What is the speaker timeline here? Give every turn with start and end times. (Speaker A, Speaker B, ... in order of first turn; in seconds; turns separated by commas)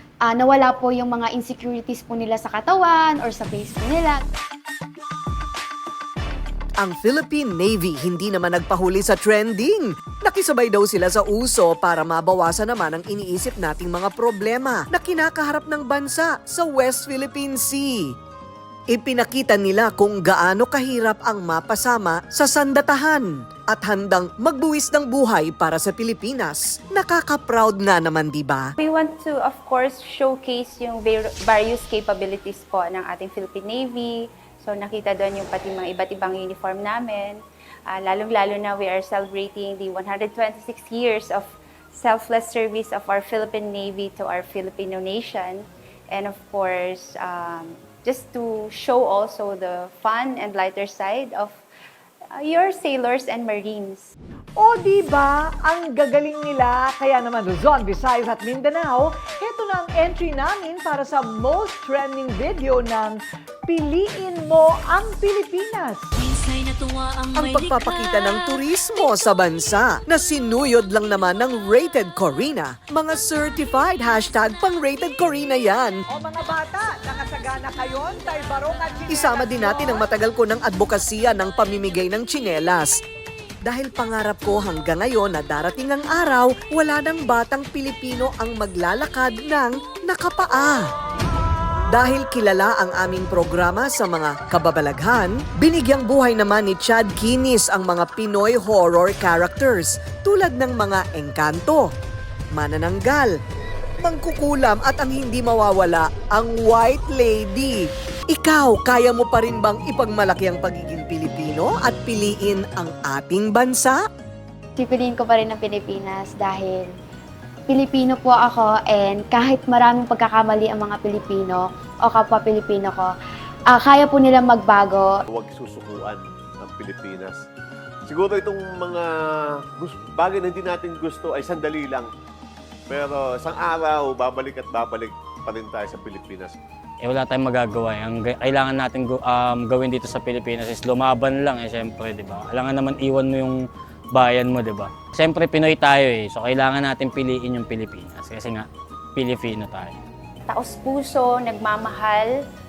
Speaker A: 0.2-4.2, Speaker B: 6.8-18.1, Speaker B: 18.9-28.7, Speaker C: 28.8-51.6, Speaker C: 52.4-54.1, Speaker D: 54.6-66.1, Speaker E: 66.2-68.5, Speaker B: 67.3-76.0, Speaker D: 76.1-80.0, Speaker B: 79.1-83.0, Speaker B: 83.6-90.9, Speaker B: 91.9-101.9, Speaker B: 102.5-103.3, Speaker B: 104.0-107.8, Speaker B: 108.3-114.0, Speaker A: 114.8-116.9, Speaker A: 117.7-123.1, Speaker A: 123.7-125.1, Speaker F: 125.3-127.4, Speaker F: 128.1-129.1, Speaker F: 129.8-132.1, Speaker F: 132.9-136.6, Speaker G: 137.0-143.6, Speaker G: 144.1-149.9, Speaker C: 150.5-152.3